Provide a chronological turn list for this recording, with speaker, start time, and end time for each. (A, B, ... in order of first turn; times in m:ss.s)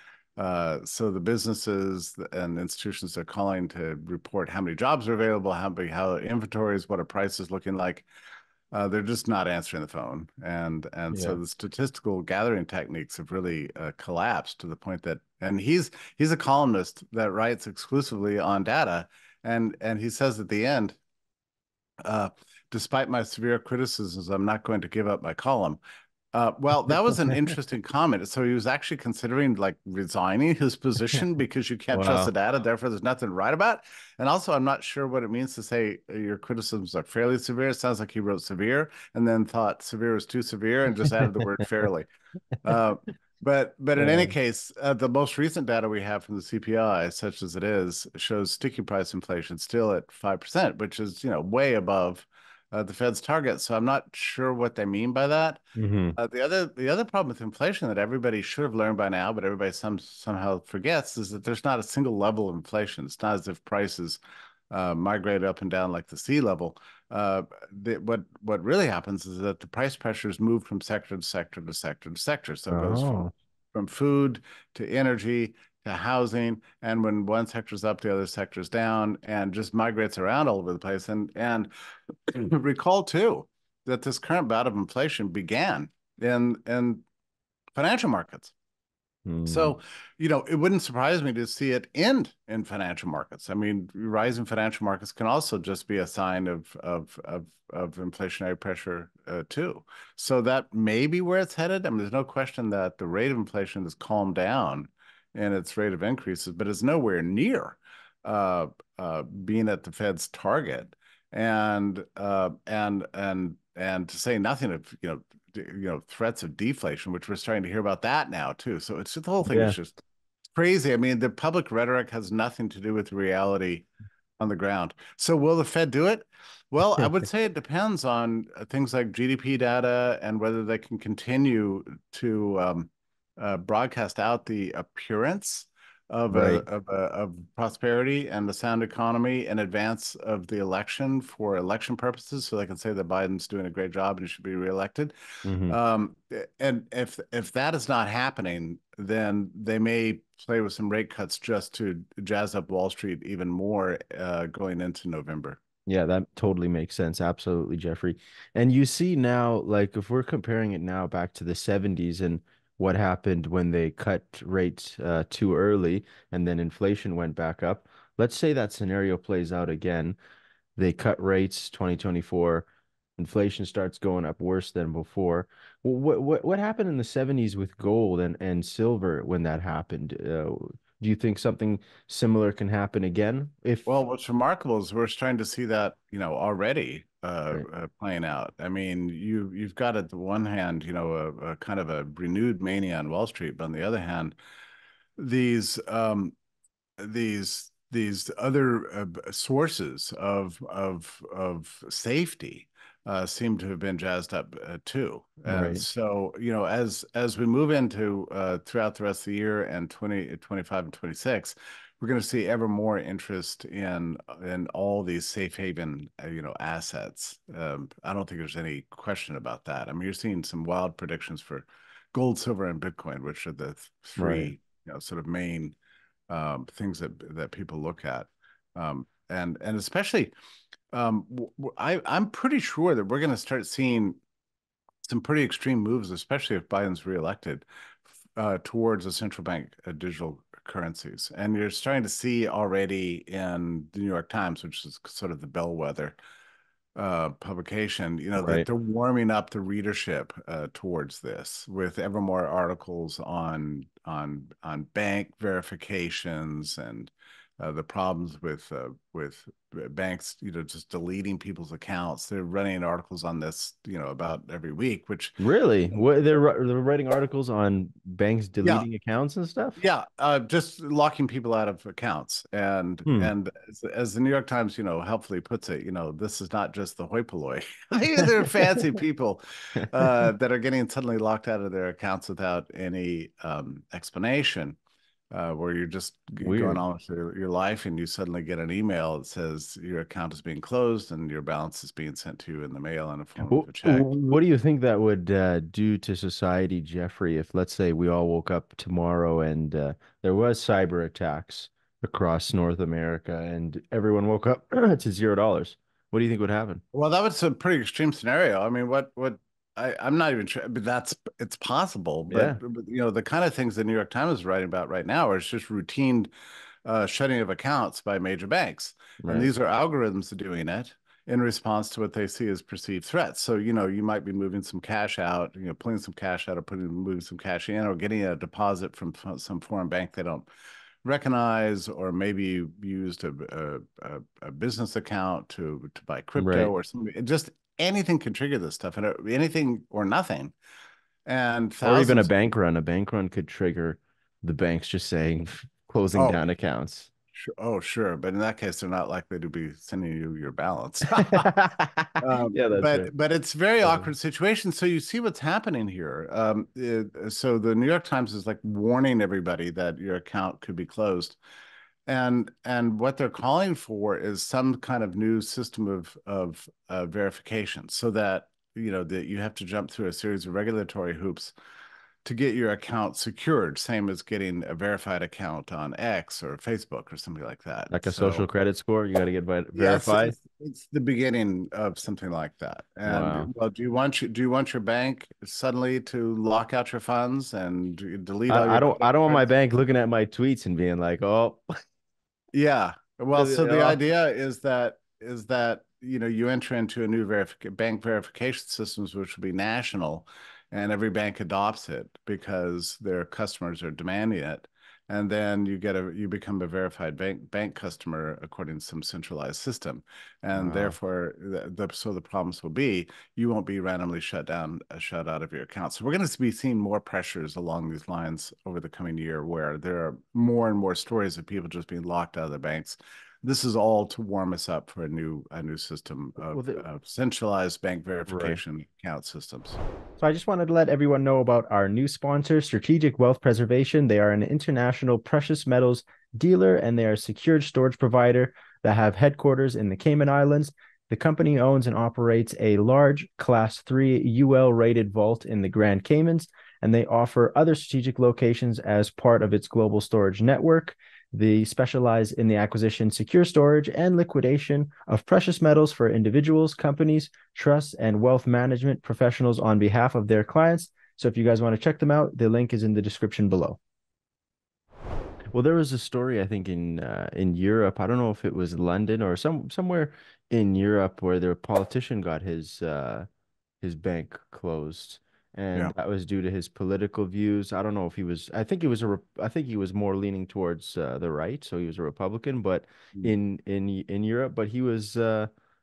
0:00.4-0:08.1 A
0:08.7-0:21.0 A
0:11.1-0:11.4 B
0:22.0-0:25.8 A
0:26.3-0:42.1 A
0:31.9-0:32.3 B
0:42.6-0:55.6 A
0:44.0-0:44.4 B
0:55.8-0:56.2 B
0:56.2-1:13.2 A
1:12.7-1:13.3 B
1:13.7-1:21.7 A
1:22.3-1:27.0 A
1:27.8-1:28.5 A
1:29.3-1:29.8 B
1:29.5-2:00.0 A
1:59.5-1:59.8 B
2:00.6-2:03.9 A
2:04.4-2:25.1 A
2:07.0-2:07.2 B
2:16.3-2:16.6 B
2:25.4-2:25.8 B
2:25.7-2:35.6 A
2:35.9-2:50.2 B
2:50.8-2:52.7 B
2:53.2-3:03.9 B
3:03.9-3:14.4 A
3:15.2-3:16.4 A
3:17.0-3:45.7 A
3:25.5-3:25.8 B
3:44.2-3:44.6 B
3:46.3-3:50.3 A
3:50.9-3:54.2 A
3:55.0-4:06.2 A
4:07.0-4:25.4 A
4:08.4-4:08.7 B
4:25.4-4:29.8 B
4:29.8-4:44.8 A
4:33.1-4:33.3 B
4:45.3-4:54.1 A
4:46.4-4:46.8 B
4:53.4-5:06.8 B
5:06.9-5:16.3 A
5:12.3-5:12.6 B
5:16.8-5:30.5 A
5:19.2-5:19.5 B
5:31.0-5:40.5 A
5:36.4-5:36.7 B
5:41.3-5:42.3 A
5:41.8-5:47.1 B
5:46.2-5:46.4 A
5:47.4-5:51.5 A
5:51.2-5:53.1 B
5:52.2-6:01.4 A
6:02.1-6:11.5 A
6:12.2-6:18.4 A
6:17.9-6:20.4 B
6:19.8-6:29.5 A
6:23.0-6:23.5 B
6:28.5-6:31.7 B
6:32.5-7:09.8 A
6:33.3-6:34.0 B
6:50.5-6:51.0 B
7:06.4-7:06.8 B
7:08.3-7:08.6 B
7:10.2-7:43.8 B
7:45.5-7:53.3 B
7:53.8-8:05.5 B